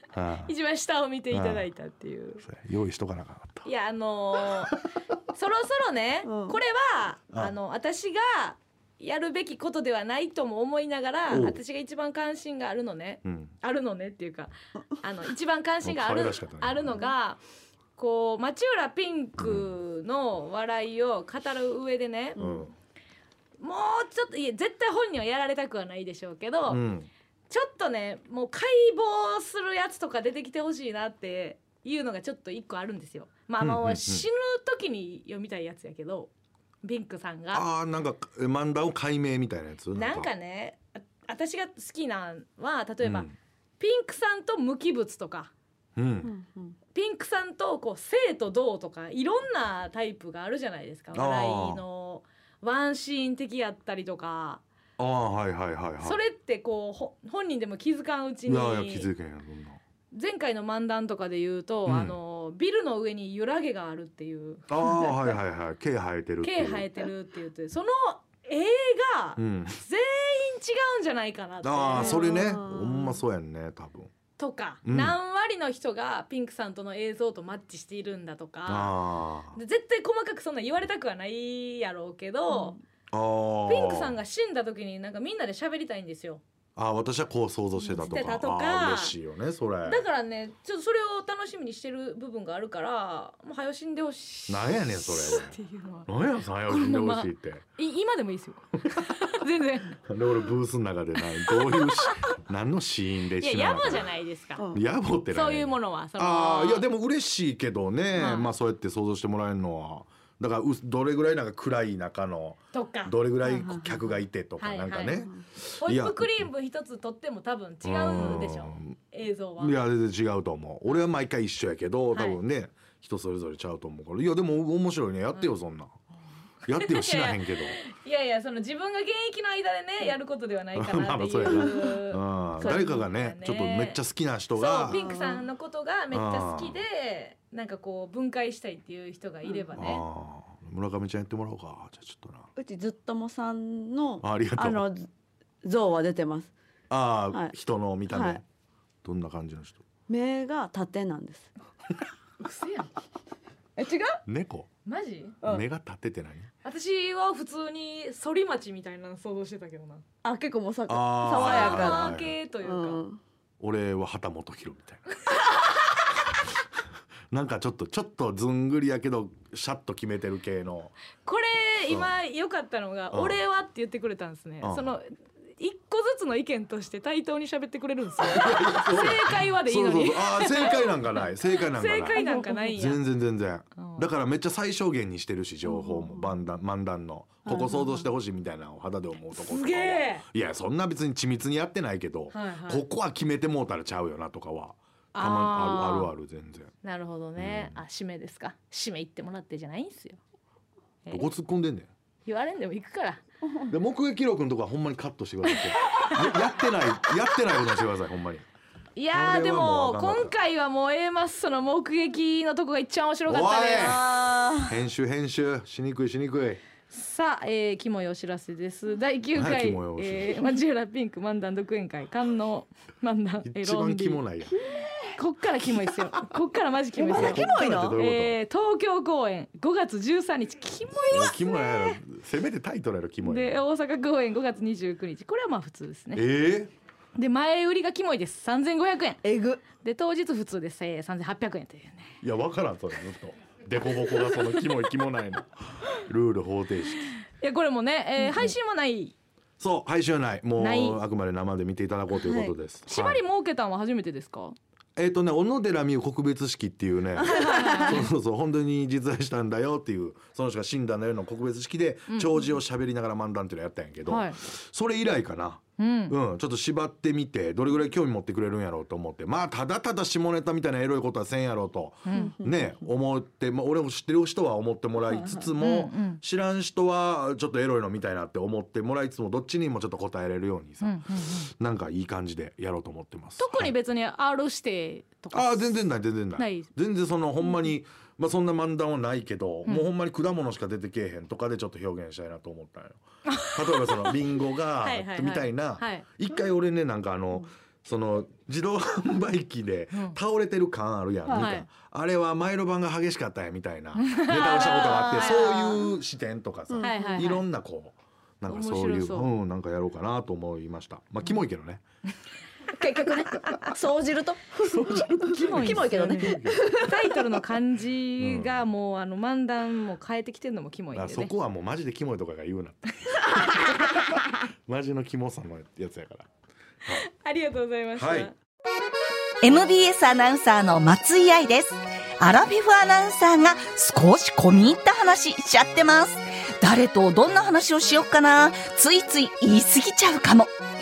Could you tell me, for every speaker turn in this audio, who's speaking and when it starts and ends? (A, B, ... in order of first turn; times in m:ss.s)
0:00.1-0:00.5 A
0:00.4-0:02.4 B
0:01.3-0:01.7 A
0:02.4-0:03.7 A
0:03.6-0:04.7 B
0:05.3-0:17.4 B
0:06.2-0:06.6 C
0:11.3-0:11.6 A
0:13.2-0:13.5 A
0:15.8-0:17.0 A
0:18.0-0:22.4 B
0:19.4-0:19.7 A
0:22.4-0:22.6 C
0:22.4-0:22.7 A
0:23.6-0:26.8 B
0:26.7-0:27.1 A
0:27.5-0:36.3 B
0:33.6-0:34.3 A
0:36.8-0:37.6 B
0:37.5-0:40.3 A
0:39.9-0:45.5 B
0:43.0-0:43.3 A
0:46.0-0:46.3 A
0:46.2-0:46.8 C
0:46.9-0:54.6 B
0:51.1-0:51.8 A
0:55.0-0:56.2 A
0:56.0-0:59.1 B
0:58.4-0:59.8 A
1:00.1-1:05.4 B
1:01.8-1:02.2 A
1:04.7-1:06.9 A
1:06.4-1:12.5 B
1:09.4-1:09.8 A
1:11.6-1:14.1 A
1:12.0-1:13.1 C
1:14.4-1:19.0 B
1:14.8-1:15.2 A
1:18.6-1:19.6 A
1:19.5-1:22.8 B
1:23.1-1:24.2 A
1:23.7-1:26.4 B
1:26.8-1:30.0 A
1:27.8-1:29.2 B
1:29.8-1:36.1 B
1:34.5-1:37.6 A
1:36.7-1:40.0 B
1:40.0-1:44.1 A
1:41.8-1:42.2 B
1:43.4-1:44.6 B
1:44.7-1:56.5 A
1:45.3-1:46.9 B
1:48.1-1:48.5 B
1:52.7-1:53.1 B
1:53.4-1:54.2 C
1:54.6-1:55.2 B
1:55.8-1:59.8 B
1:57.8-1:59.0 A
1:59.6-2:05.9 A
2:02.1-2:02.4 B
2:06.7-2:07.8 A
2:06.7-2:14.0 B
2:10.7-2:15.0 A
2:12.6-2:13.0 C
2:14.5-2:20.0 B
2:14.9-2:15.5 C
2:16.1-2:16.8 A
2:19.8-2:22.5 A
2:22.6-2:25.1 C
2:24.2-2:24.8 A
2:25.6-2:26.5 C
2:26.9-2:28.4 A
2:28.1-2:28.4 C
2:29.0-2:29.8 A
2:30.1-2:31.5 C
2:32.4-2:32.9 B
2:33.8-2:34.2 C
2:34.2-2:34.7 A
2:34.8-2:35.4 B
2:35.4-2:36.5 A
2:36.6-2:40.0 B
2:40.2-2:43.2 C
2:40.9-2:42.4 A
2:41.3-2:43.0 B
2:43.6-2:45.1 A
2:47.3-2:50.9 A
2:51.2-3:03.0 B
2:51.9-2:52.1 A
2:53.1-2:53.4 A
2:54.6-2:55.0 A
2:58.3-3:02.2 A
3:02.1-3:02.7 C
3:02.7-3:16.7 A
3:03.8-3:04.0 B
3:05.6-3:06.2 C
3:07.4-3:08.1 C
3:09.3-3:10.2 B
3:12.3-3:12.8 B
3:15.1-3:16.1 B
3:16.8-3:20.2 B
3:17.4-3:17.8 A
3:21.0-3:21.3 B
3:21.1-3:21.9 A
3:22.2-3:23.2 B
3:23.7-3:28.4 A
3:25.5-3:26.4 B
3:29.0-3:34.0 B
3:29.1-3:30.3 A
3:33.2-3:34.1 A
3:33.8-3:34.7 C
3:34.6-3:36.6 A
3:36.9-3:44.2 B
3:39.3-3:40.5 A
3:43.4-3:44.6 A
3:45.2-3:52.0 B
3:47.0-3:48.0 C
3:47.1-3:48.4 A
3:51.0-3:53.6 A
3:53.2-3:56.2 B
3:56.1-3:56.7 A
3:57.1-4:02.1 B
3:59.2-3:59.6 C
4:02.2-4:07.1 A
4:07.3-4:09.1 B
4:08.2-4:08.5 C
4:09.6-4:13.2 A
4:10.6-4:11.0 B
4:12.1-4:12.5 C
4:12.9-4:14.6 B
4:15.0-4:41.0 A
4:17.2-4:17.9 C
4:17.3-4:18.1 B
4:22.1-4:22.5 B
4:24.0-4:24.4 B
4:25.8-4:26.2 B
4:32.0-4:32.3 B
4:32.1-4:32.7 C
4:35.0-4:35.5 C
4:35.6-4:36.2 B
4:40.8-4:41.5 B
4:41.6-4:43.7 A
4:43.4-4:46.7 B
4:45.3-5:11.8 A
4:53.3-4:56.0 B
4:59.9-5:00.2 B
5:01.3-5:01.6 C
5:01.3-5:01.6 B
5:04.0-5:05.8 B
5:05.2-5:05.7 C
5:06.7-5:07.3 C
5:06.8-5:07.4 B
5:08.4-5:09.3 B
5:12.8-5:13.7 B
5:13.6-5:14.8 C
5:14.6-5:16.7 A
5:14.8-5:21.3 B
5:15.4-5:17.2 C
5:18.2-5:18.6 A
5:20.9-5:26.3 A
5:26.9-5:28.3 B
5:28.0-5:28.3 A
5:29.4-5:40.5 D